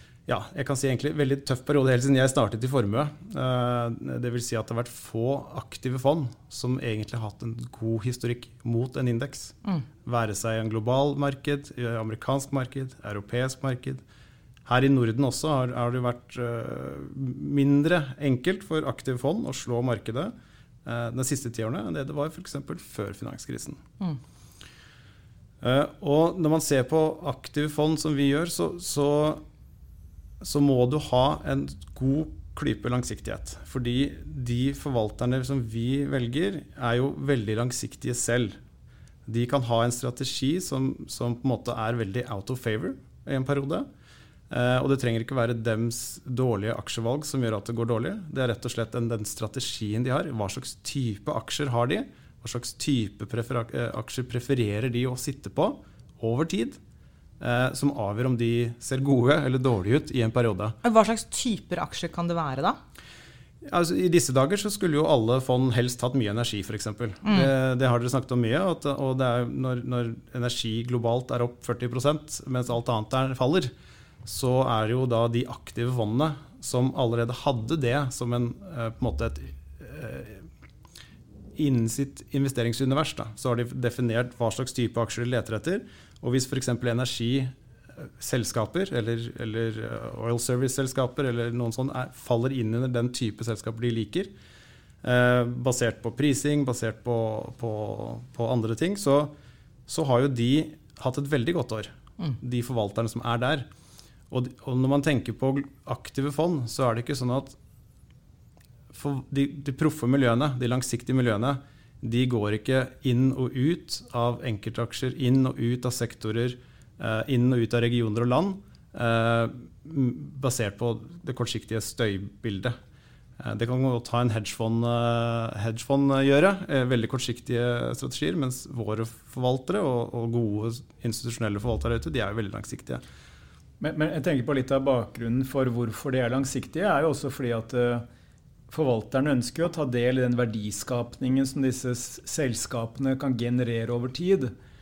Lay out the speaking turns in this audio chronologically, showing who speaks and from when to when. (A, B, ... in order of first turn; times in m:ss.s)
0:00.3-0:14.0 A
0:14.7-0:20.3 A
0:20.8-0:23.8 A
0:25.6-0:29.4 A
0:30.4-0:38.6 A
0:39.3-0:43.9 A
0:44.5-0:56.8 A
0:57.4-1:00.8 A
1:00.8-1:02.8 B
1:03.7-1:13.7 A
1:07.2-1:07.5 B
1:14.2-1:20.5 A
1:21.6-1:34.3 A
1:35.0-1:39.3 A
1:39.9-1:43.7 A
1:44.3-1:47.6 A
1:48.9-2:02.8 A
2:03.4-2:13.0 A
2:13.8-2:18.0 C
2:18.7-2:24.5 C